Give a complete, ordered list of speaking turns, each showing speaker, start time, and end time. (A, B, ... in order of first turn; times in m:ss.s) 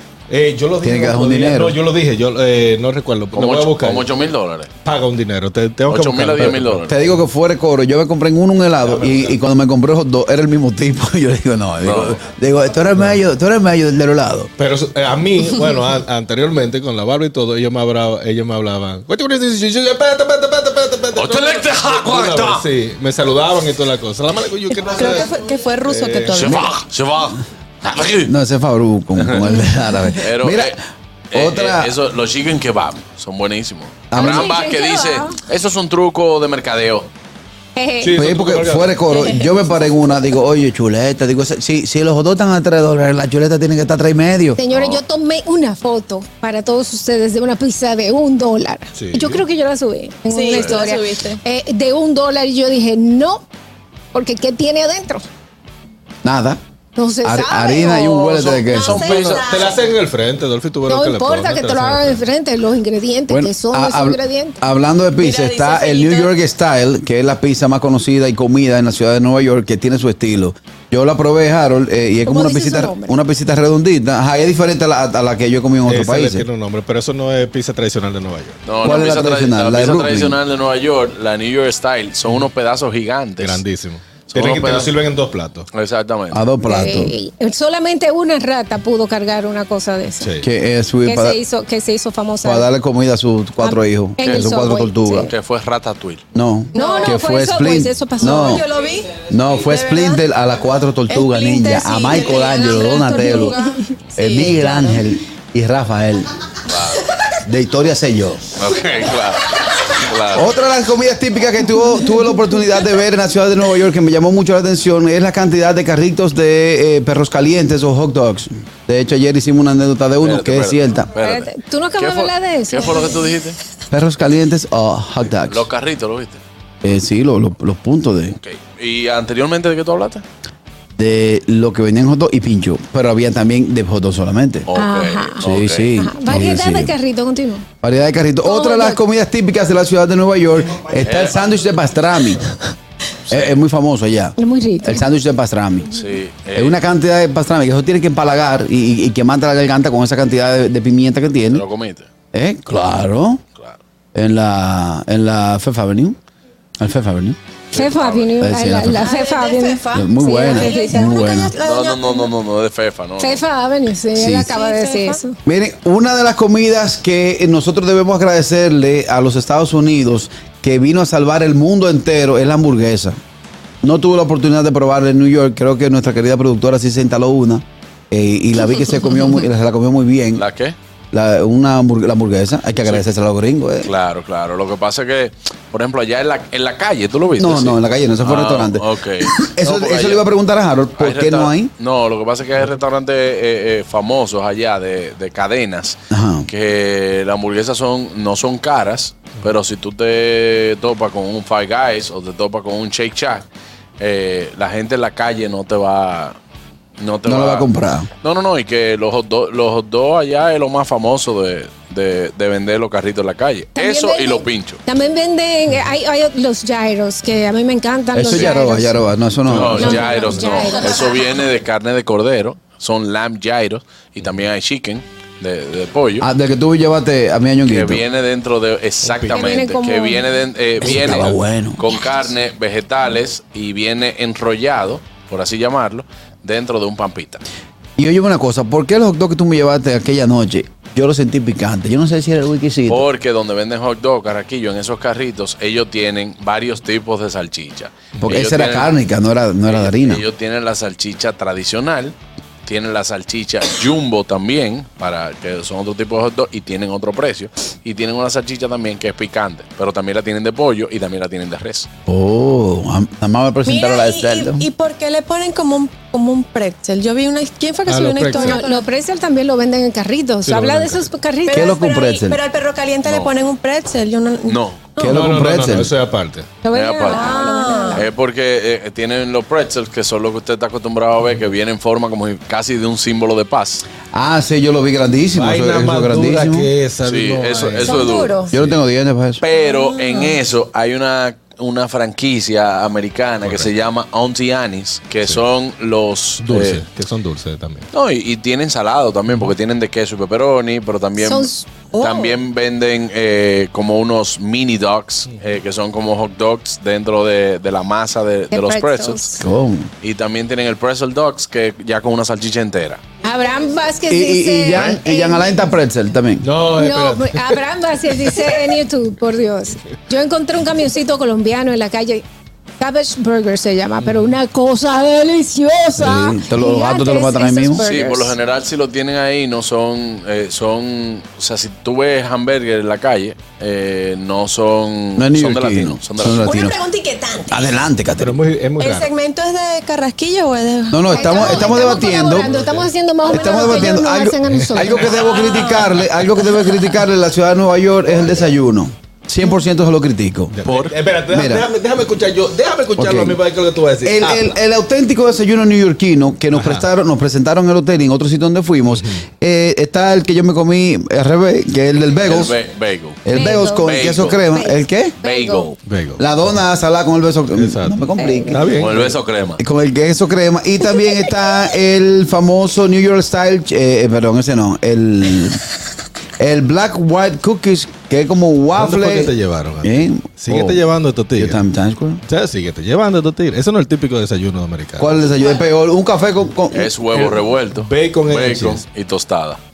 0:00.3-0:04.1 A
0:00.8-0:01.8 B
0:03.3-0:04.7 C
0:04.8-0:06.8 A
0:05.9-0:07.0 C
0:06.4-0:14.5 B
0:08.9-0:09.3 A
0:11.8-0:12.2 C
0:14.6-0:26.5 A
0:21.1-0:22.6 C
0:24.7-0:26.7 D
0:26.3-0:28.3 C
0:26.4-0:26.7 B
0:28.1-0:30.8 B
0:29.2-0:29.6 C
0:30.2-0:30.8 C
0:31.3-0:37.1 C
0:31.3-0:31.9 B
0:34.1-0:34.6 B
0:34.1-0:35.4 E
0:37.8-0:38.2 E
0:38.0-0:39.2 A
0:38.1-0:44.6 B
0:44.6-0:53.4 E
0:44.7-0:45.0 C
0:48.9-0:49.4 A
0:50.3-0:51.4 D
0:50.5-0:50.8 C
0:54.1-0:55.2 E
0:56.2-0:56.6 B
0:57.0-0:58.3 E
0:57.2-0:59.1 B
0:58.3-0:59.5 C
0:58.7-0:59.9 D
0:59.1-1:02.2 A
1:00.9-1:04.6 E
1:03.3-1:16.5 B
1:05.2-1:06.3 D
1:12.2-1:13.2 E
1:15.9-1:18.6 A
1:18.6-1:23.6 C
1:18.8-1:20.4 B
1:23.4-1:25.7 A
1:24.3-1:25.0 C
1:25.7-1:26.5 C
1:26.3-1:27.2 B
1:26.6-1:30.3 E
1:30.2-1:30.5 A
1:30.4-1:31.4 B
1:31.0-1:32.7 E
1:32.4-1:35.3 B
1:33.6-1:35.3 E
1:34.2-1:34.5 C
1:35.2-1:36.2 C
1:36.3-1:38.6 B
1:36.7-1:37.1 D
1:36.8-1:38.6 E
1:38.2-1:40.2 D
1:39.3-1:43.6 B
1:41.1-1:45.0 D
1:43.0-1:43.9 E
1:44.2-1:46.3 B
1:46.7-1:47.0 C
1:47.4-1:48.4 B
1:48.5-1:50.5 C
1:50.3-2:01.1 B
2:00.2-2:03.6 C
2:01.1-2:03.4 E
2:03.9-2:05.6 B
2:05.4-2:06.4 C
2:06.8-2:08.4 B
2:08.3-2:10.2 C
2:11.0-2:14.7 B
2:14.7-2:15.9 C
2:14.7-2:15.4 E
2:15.4-2:16.9 B
2:16.0-2:17.6 E
2:17.8-2:22.5 B
2:18.4-2:19.0 E
2:21.0-2:21.5 C
2:23.3-2:23.6 C
2:23.3-2:31.6 B
2:24.4-2:25.0 E
2:25.9-2:26.8 C
2:31.5-2:32.1 C
2:32.3-2:33.4 B
2:33.5-2:33.8 C
2:34.1-2:36.2 B
2:36.8-2:37.4 B
2:37.7-2:38.3 C
2:37.7-2:41.3 E
2:38.4-2:39.1 B
2:39.0-2:42.3 D
2:39.9-2:41.6 B
2:41.6-2:43.4 C
2:43.2-2:45.4 E
2:44.1-2:44.5 B
2:44.5-2:45.2 D
2:45.4-2:53.2 B
2:53.8-3:00.4 B
3:00.4-3:00.8 C
3:01.1-3:03.9 B
3:02.8-3:03.1 C
3:03.8-3:10.3 C
3:07.4-3:11.7 B
3:11.0-3:23.5 C
3:16.1-3:16.5 B
3:24.0-3:26.4 C
3:27.0-3:27.7 C
3:27.2-3:28.1 B
3:28.2-3:34.8 C
3:33.8-3:39.0 E
3:38.1-3:40.3 B
3:39.5-3:46.3 C
3:39.7-3:41.2 E
3:46.2-3:48.0 B
3:47.6-3:57.4 C
3:49.0-3:49.5 A
3:49.3-3:50.2 E
3:50.8-3:51.8 B
3:58.0-4:03.0 B
4:02.9-4:08.9 C
4:08.2-4:10.2 B
4:09.6-4:21.9 C
4:22.1-4:24.7 B
4:23.6-4:28.9 D
4:27.8-4:28.6 A
4:28.3-4:31.7 E
4:30.4-4:31.1 A
4:31.4-4:35.1 D
4:31.5-4:32.4 B
4:33.0-4:33.3 C
4:34.4-4:34.8 C
4:35.0-4:35.9 B
4:35.0-4:36.5 A
4:36.6-4:38.1 E
4:36.7-4:37.4 C
4:37.1-4:38.0 D
4:37.9-4:43.8 C
4:44.1-4:46.7 B
4:45.3-4:48.8 A
4:47.0-4:48.4 C
4:47.8-4:48.5 D
4:48.5-4:49.4 B
4:49.4-4:56.8 C
4:49.5-4:50.4 D
4:53.4-4:53.7 A
4:56.4-4:57.9 A
4:57.9-5:09.4 C
4:59.3-4:59.5 A
5:01.2-5:02.3 E
5:08.5-5:09.4 E
5:09.4-5:09.9 B
5:10.0-5:13.0 C
5:13.2-5:15.6 E
5:14.1-5:16.5 B
5:16.4-5:17.6 A
5:16.7-5:22.2 E
5:22.8-5:28.3 E
5:24.0-5:24.3 A
5:26.0-5:27.8 B
5:27.8-5:36.7 C
5:35.2-5:36.8 B
5:36.3-5:37.8 D
5:37.5-5:38.4 B
5:38.2-5:39.1 A
5:38.8-5:42.2 D
5:40.9-5:42.5 B
5:41.1-5:45.1 E
5:42.4-5:42.9 A
5:43.3-5:50.5 B
5:44.6-5:45.3 A
5:45.1-5:46.9 D
5:50.5-5:54.6 A
5:50.6-5:50.9 C
5:51.3-5:51.7 B
5:53.0-5:53.4 B
5:54.0-6:02.6 B
5:56.5-5:56.8 A
5:58.9-5:59.2 A
6:02.2-6:03.3 C
6:03.2-6:05.2 B
6:03.3-6:04.0 E
6:03.8-6:04.4 C
6:04.5-6:05.7 E
6:05.2-6:05.8 C
6:05.8-6:06.2 A
6:06.2-6:08.7 B
6:07.5-6:08.0 A
6:08.2-6:08.6 E
6:08.5-6:09.2 A
6:08.8-6:09.6 C
6:09.6-6:15.6 B
6:16.4-6:20.8 B
6:18.8-6:21.6 A
6:21.4-6:22.2 B
6:22.3-6:25.2 A
6:25.0-6:26.9 B
6:26.7-6:29.6 C
6:27.1-6:28.8 A